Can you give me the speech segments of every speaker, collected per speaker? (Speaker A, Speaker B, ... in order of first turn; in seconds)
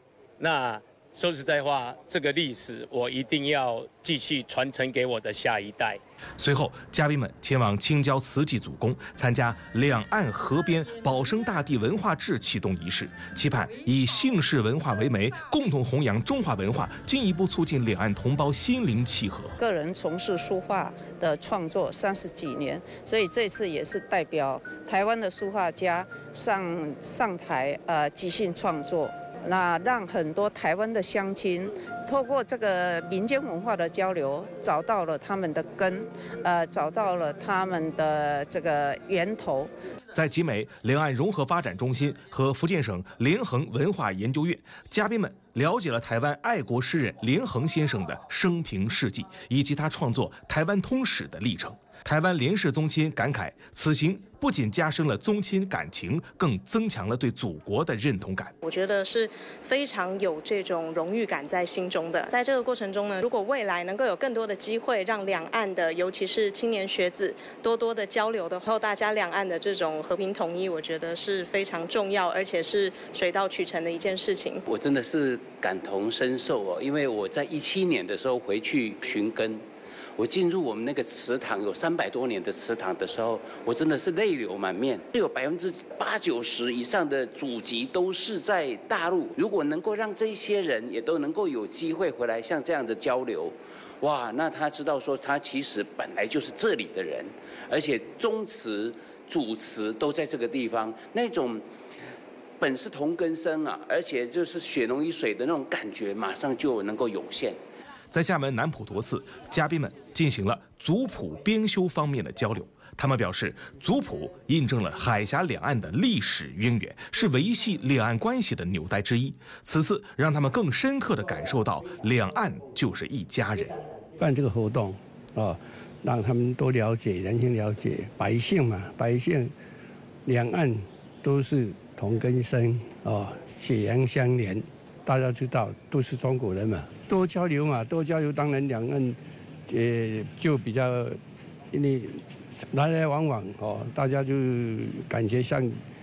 Speaker A: 0.4-6.0
Speaker B: 6.4-19.6, 40.1-58.5, 108.1-123.8
Speaker C: 19.6-39.7
Speaker D: 58.6-74.6
Speaker E: 74.7-79.6, 80.2-101.6, 102.6-107.6
Speaker F: 124.2-129.5, 130.2-141.2, 141.7-145.8